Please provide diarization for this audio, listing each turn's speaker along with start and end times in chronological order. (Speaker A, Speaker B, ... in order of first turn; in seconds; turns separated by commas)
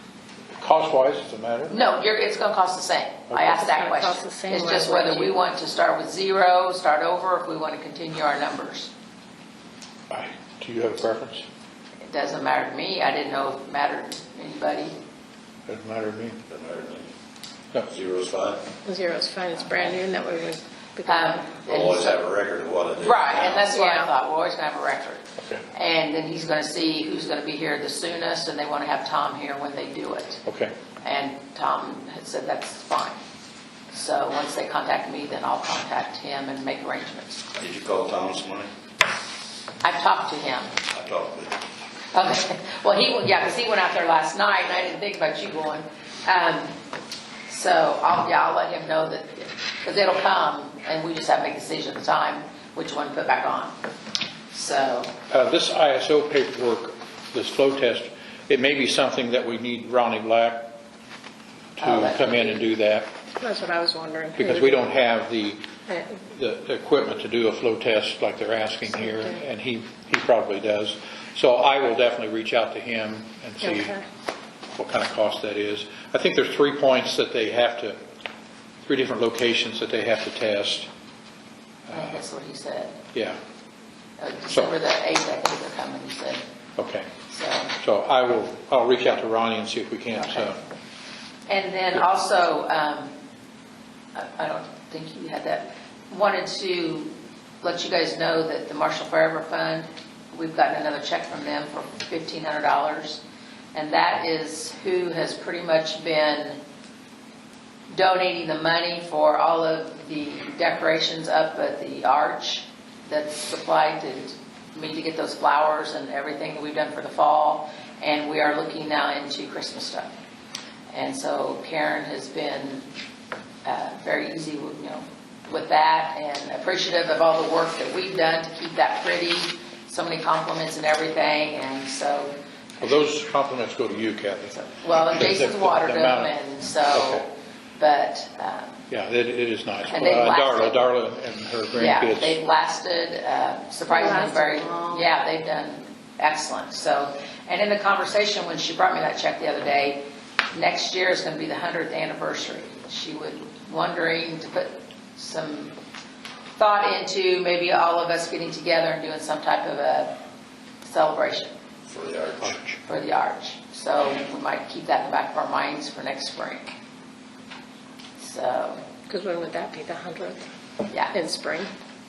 Speaker A: 0.6-1.7, Speaker B: 1.7-8.9, Speaker A: 3.3-3.7, Speaker C: 3.6-5.4, Speaker A: 10.1-11.4, Speaker B: 12.1-14.9, Speaker A: 15.7-16.4, Speaker D: 16.5-17.1, Speaker D: 17.9-18.6, Speaker C: 18.8-21.5, Speaker B: 19.7-20.0, Speaker B: 21.1-22.2, Speaker D: 21.6-23.7, Speaker B: 23.0-30.4, Speaker C: 23.7-24.1, Speaker A: 30.4-30.7, Speaker B: 31.0-33.2, Speaker B: 33.9-37.4, Speaker D: 37.6-38.7, Speaker B: 39.8-40.7, Speaker D: 40.9-41.6, Speaker B: 42.1-46.8, Speaker B: 47.5-53.8, Speaker B: 54.5-55.1, Speaker A: 55.3-60.7, Speaker A: 61.8-63.1, Speaker B: 61.8-62.7, Speaker C: 63.4-64.8, Speaker A: 64.4-65.6, Speaker C: 65.9-66.1, Speaker A: 66.2-73.9, Speaker C: 69.0-69.3, Speaker C: 73.6-74.0, Speaker A: 74.8-78.0, Speaker A: 78.8-80.9, Speaker A: 81.9-82.2, Speaker B: 81.9-83.0, Speaker B: 84.2-86.4, Speaker A: 86.8-87.1, Speaker B: 87.3-87.8, Speaker A: 87.8-90.6, Speaker B: 90.2-90.5, Speaker B: 91.5-93.1, Speaker B: 94.1-103.2, Speaker B: 103.7-106.6, Speaker B: 107.9-120.1, Speaker B: 120.9-122.9, Speaker B: 123.6-132.3, Speaker A: 132.8-136.3, Speaker B: 134.5-137.2, Speaker A: 136.9-137.2, Speaker B: 137.8-138.8, Speaker A: 138.9-142.4, Speaker B: 139.9-140.9, Speaker B: 141.7-150.0, Speaker C: 143.9-145.1, Speaker B: 150.5-155.8, Speaker B: 156.6-160.2, Speaker B: 160.8-161.5, Speaker D: 161.9-162.6, Speaker A: 162.4-162.8, Speaker B: 162.8-166.7, Speaker B: 168.2-168.8, Speaker C: 169.1-170.5, Speaker B: 170.9-171.2, Speaker C: 171.1-171.7